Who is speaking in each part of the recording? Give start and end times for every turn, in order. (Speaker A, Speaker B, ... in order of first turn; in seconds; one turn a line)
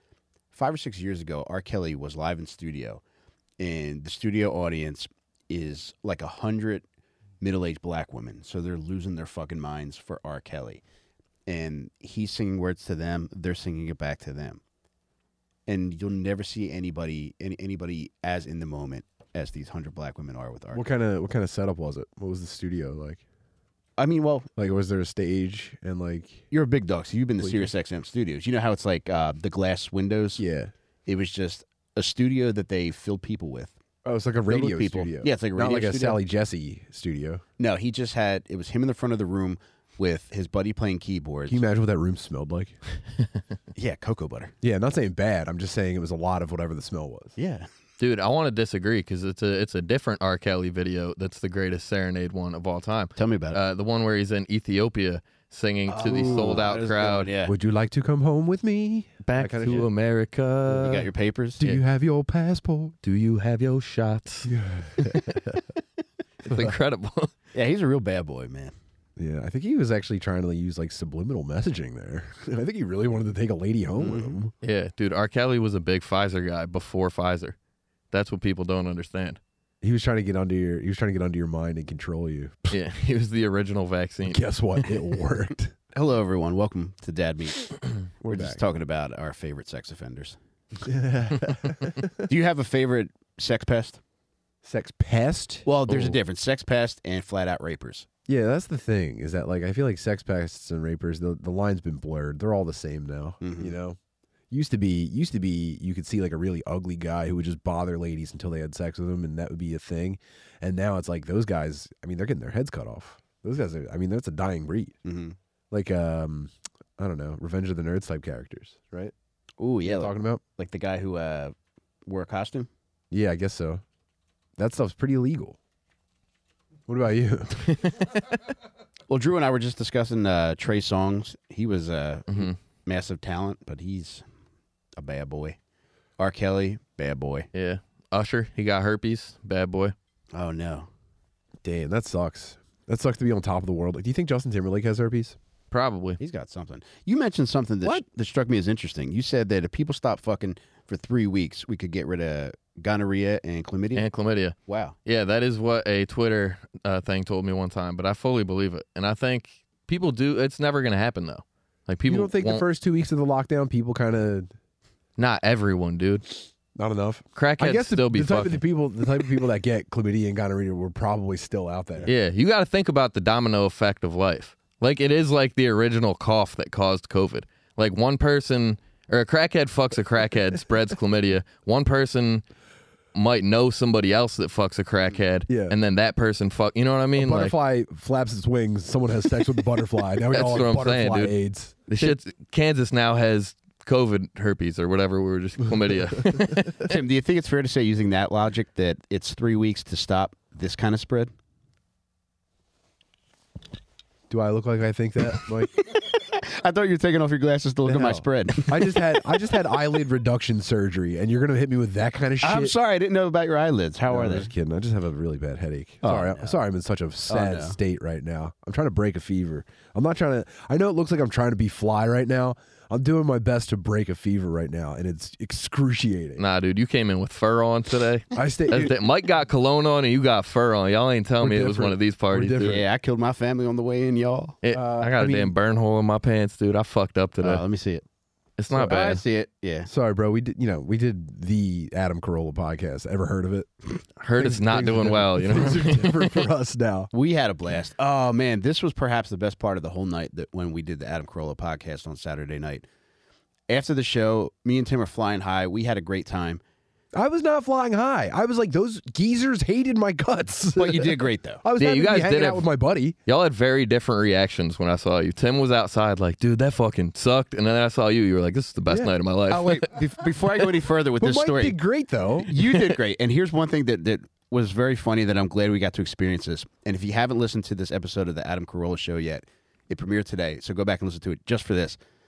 Speaker A: 0.5-3.0
Speaker A: 3.6-6.8
Speaker A: 7.4-10.8
Speaker A: 11.5-14.6
Speaker A: 15.7-20.8
Speaker B: 20.7-23.2
Speaker A: 24.0-24.5
Speaker B: 24.6-26.4
Speaker A: 26.5-30.4
Speaker B: 27.4-27.7
Speaker B: 30.4-30.7
Speaker A: 31.1-33.7
Speaker B: 34.0-37.4
Speaker A: 34.5-36.2
Speaker A: 37.6-41.6
Speaker B: 41.5-42.8
Speaker A: 43.8-44.5
Speaker B: 44.6-47.3
Speaker A: 47.4-47.7
Speaker C: 48.0-57.3
Speaker A: 53.1-53.6
Speaker A: 55.9-57.5
Speaker B: 56.0-56.6
Speaker B: 57.4-59.9
Speaker C: 59.2-61.1
Speaker A: 60.7-61.6
Speaker B: 61.6-63.0
Speaker C: 63.0-65.2
Speaker B: 64.5-65.1
Speaker C: 66.4-67.3
Speaker B: 66.5-66.7
Speaker A: 67.5-68.7
Speaker B: 69.2-74.5
Speaker A: 74.0-74.4
Speaker C: 74.6-77.5
Speaker C: 78.1-79.4
Speaker B: 79.8-82.8
Speaker C: 82.7-84.8
Speaker B: 84.2-85.7
Speaker A: 85.9-90.4
Speaker B: 88.2-88.6
Speaker B: 90.8-92.1
Speaker A: 92.3-94.0
Speaker B: 94.6-95.7
Speaker A: 95.7-98.0
Speaker C: 95.9-96.2
Speaker B: 98.3-104.0
Speaker A: 103.4-103.7
Speaker B: 104.5-115.0
Speaker A: 115.0-115.3
Speaker B: 115.7-119.1
Speaker A: 119.6-121.5
Speaker B: 119.8-120.4
Speaker A: 122.0-122.7
Speaker B: 123.1-123.8
Speaker B: 124.6-125.6
Speaker B: 126.9-127.6
Speaker A: 129.1-134.2
Speaker C: 132.3-132.5
Speaker A: 135.0-135.6
Speaker A: 136.2-137.5
Speaker C: 137.5-139.9
Speaker A: 140.3-140.9
Speaker B: 141.6-145.4
Speaker C: 145.7-146.2
Speaker A: 146.2-154.1
Speaker C: 153.9-154.5
Speaker A: 154.7-154.9
Speaker C: 155.1-162.6
Speaker B: 162.1-164.5
Speaker C: 165.2-166.2
Speaker B: 166.8-172.1
Speaker C: 167.3-168.6
Speaker C: 172.1-182.4
Speaker C: 183.1-187.5
Speaker B: 185.5-185.8
Speaker B: 187.2-192.1
Speaker C: 190.3-191.3
Speaker C: 191.9-196.9
Speaker A: 196.8-201.3
Speaker B: 204.3-205.7
Speaker A: 205.9-209.0
Speaker B: 207.8-212.7
Speaker A: 212.4-214.5
Speaker B: 214.1-226.4
Speaker A: 216.0-216.6
Speaker A: 217.3-217.8
Speaker C: 226.4-232.8
Speaker B: 228.3-228.9
Speaker B: 231.4-232.8
Speaker A: 232.6-234.6
Speaker C: 234.6-237.6
Speaker B: 234.7-235.5
Speaker A: 237.4-238.0
Speaker C: 238.6-239.2
Speaker B: 238.7-239.2
Speaker A: 238.7-239.9
Speaker B: 239.8-243.7
Speaker C: 244.2-246.4
Speaker B: 244.4-247.1
Speaker A: 247.1-252.8
Speaker A: 253.7-256.6
Speaker B: 257.1-263.1
Speaker A: 260.8-261.6
Speaker C: 261.8-262.7
Speaker C: 263.2-269.8
Speaker B: 268.9-269.1
Speaker A: 269.5-271.8
Speaker B: 271.2-272.9
Speaker A: 272.4-282.0